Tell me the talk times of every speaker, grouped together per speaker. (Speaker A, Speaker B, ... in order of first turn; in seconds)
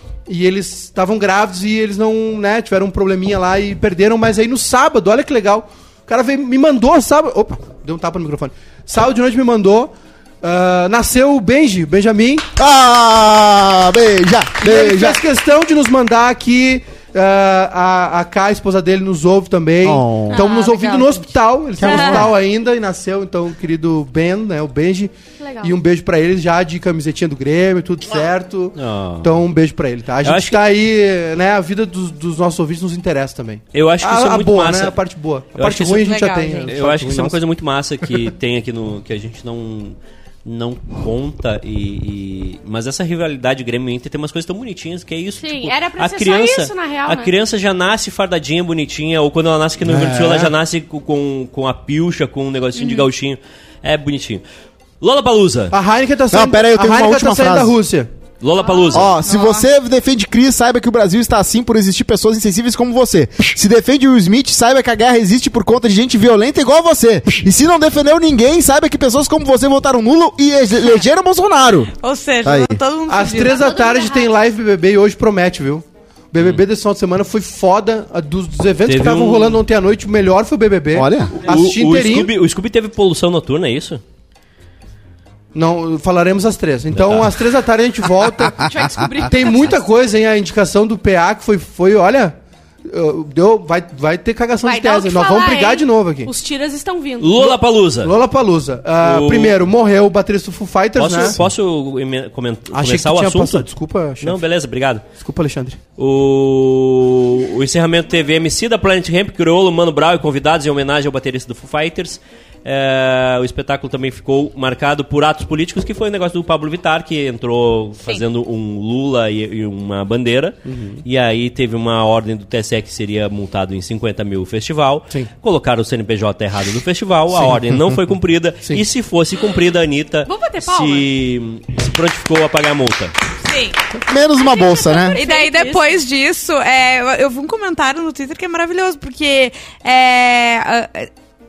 Speaker A: 0.3-12.5, 14.6-37.4, 49.8-50.5, 55.7-58.1, 73.1-82.3, 85.5-96.3, 97.4-101.4, 102.7-104.4, 105.2-105.8, 120.7-121.0
Speaker B: 12.6-15.2, 19.8-20.4, 21.8-22.3, 56.3-57.7, 58.9-71.9, 72.4-72.8, 80.9-81.4, 127.3-128.0, 134.1-135.2
Speaker C: 20.3-21.2, 21.8-22.3, 36.0-36.7, 59.2-59.6, 72.0-73.6, 133.4-133.8, 135.1-141.1
Speaker D: 25.4-25.8, 45.4-47.3, 58.6-59.1, 73.4-74.3, 88.5-89.8, 94.6-97.5, 130.2-131.1, 134.4-136.0
Speaker E: 28.8-29.3, 30.2-30.6, 33.7-35.0, 35.5-36.1, 36.7-54.4, 55.0-55.8, 58.4-59.1, 78.8-79.6, 81.4-84.0, 86.9-87.4, 97.2-98.2, 99.0-99.6, 101.0-103.7, 104.2-105.0, 106.0-133.1